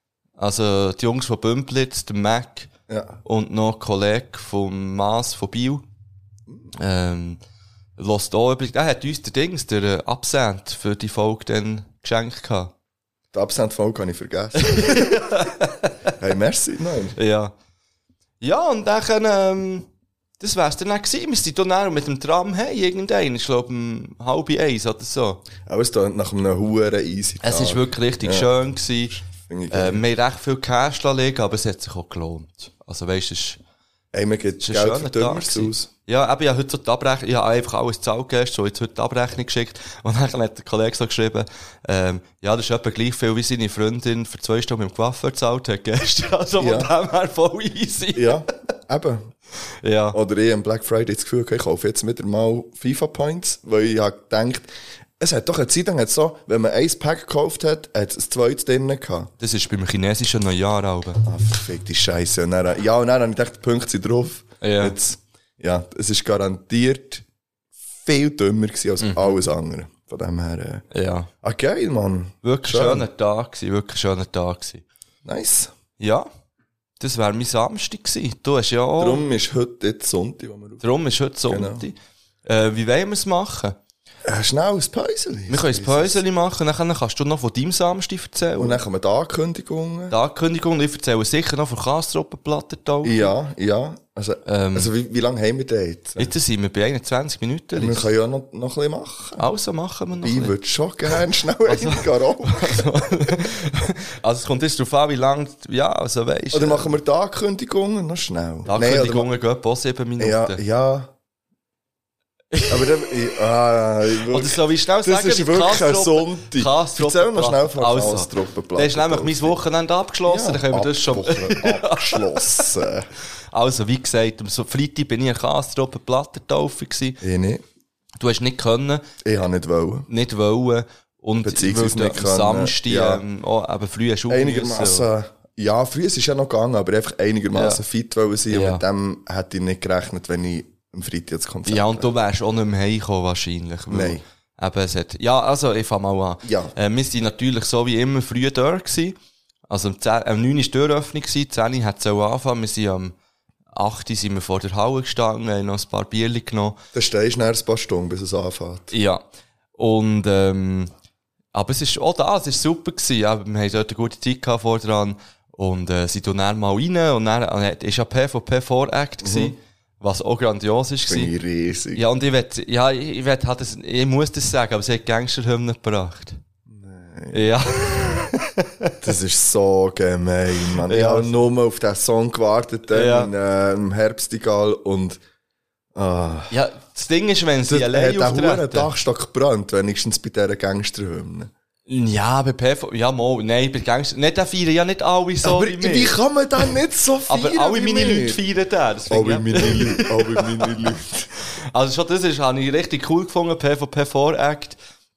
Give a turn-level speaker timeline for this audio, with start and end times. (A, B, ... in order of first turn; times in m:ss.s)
0:00.4-0:02.7 A
0:02.9-0:03.2 B
0:03.2-0:05.8 A
0:06.7-0:07.4 A
0:08.0-0:12.7 A
0:13.3-0:15.2 B
0:14.6-0:16.1 A
0:16.2-0:17.2 B
0:17.2-0:17.5 A
0:18.4-0:19.9 A
0:20.4-0:25.4 A
0:25.6-0:28.5 B
0:27.4-0:29.1 A
0:29.1-0:30.0 B
0:29.7-0:33.6 A
0:34.1-0:35.9 B
0:34.6-0:48.4 A
0:46.6-0:46.9 B
0:48.1-0:49.3 B
0:49.8-0:50.2 A
0:50.1-0:59.3 B
0:59.4-1:01.2 A
1:01.2-1:07.2 B
1:04.6-1:05.0 A
1:08.0-1:10.8 B
1:09.0-1:09.4 A
1:10.9-1:11.3 A
1:11.4-1:13.0 B
1:12.4-1:14.8 A
1:15.2-1:15.7 B
1:16.0-1:16.3 A
1:17.0-1:19.2 A
1:19.0-1:20.8 B
1:20.8-1:23.8 A
1:21.5-1:21.8 B
1:24.2-1:26.2 B
1:25.5-1:28.8 A
1:28.6-1:30.1 B
1:30.1-1:33.3 A
1:33.0-1:36.3 B
1:34.4-1:34.9 A
1:36.2-1:38.1 A
1:37.8-1:39.4 B
1:39.4-1:40.5 A
1:40.2-1:42.9 B
1:41.7-1:46.9 A
1:46.5-1:49.3 B
1:48.6-1:50.6 A
1:50.2-1:51.1 B
1:52.5-1:53.0 A
1:52.7-1:59.6 B
1:54.3-2:02.7 A
2:00.2-2:03.1 B
2:03.5-2:07.2 A
2:07.2-2:07.6 B
2:08.2-2:09.0 A
2:09.2-2:10.0 B
2:10.1-2:15.1 A
2:11.4-2:13.2 B
2:14.3-2:22.1 B
2:17.5-2:17.8 A
2:18.5-2:18.8 A
2:21.6-2:29.2 A
2:23.9-2:24.2 B
2:26.4-2:26.7 B
2:29.7-2:33.1 A
2:33.7-2:36.8 A
2:36.9-2:38.9 B
2:38.9-2:39.2 A
2:39.8-2:40.9 A
2:41.5-2:51.3 A
2:49.2-2:49.5 B
2:51.1-2:52.0 B
2:51.9-2:56.4 A
2:56.7-2:58.2 B
2:57.3-2:58.9 A
2:59.0-3:05.2 B
3:00.8-3:01.5 A
3:02.9-3:03.3 A
3:05.9-3:06.5 B
3:06.5-3:08.9 A
3:07.7-3:11.5 B
3:11.9-3:16.2 A
3:15.4-3:18.4 B
3:17.3-3:24.8 A
3:19.1-3:21.3 B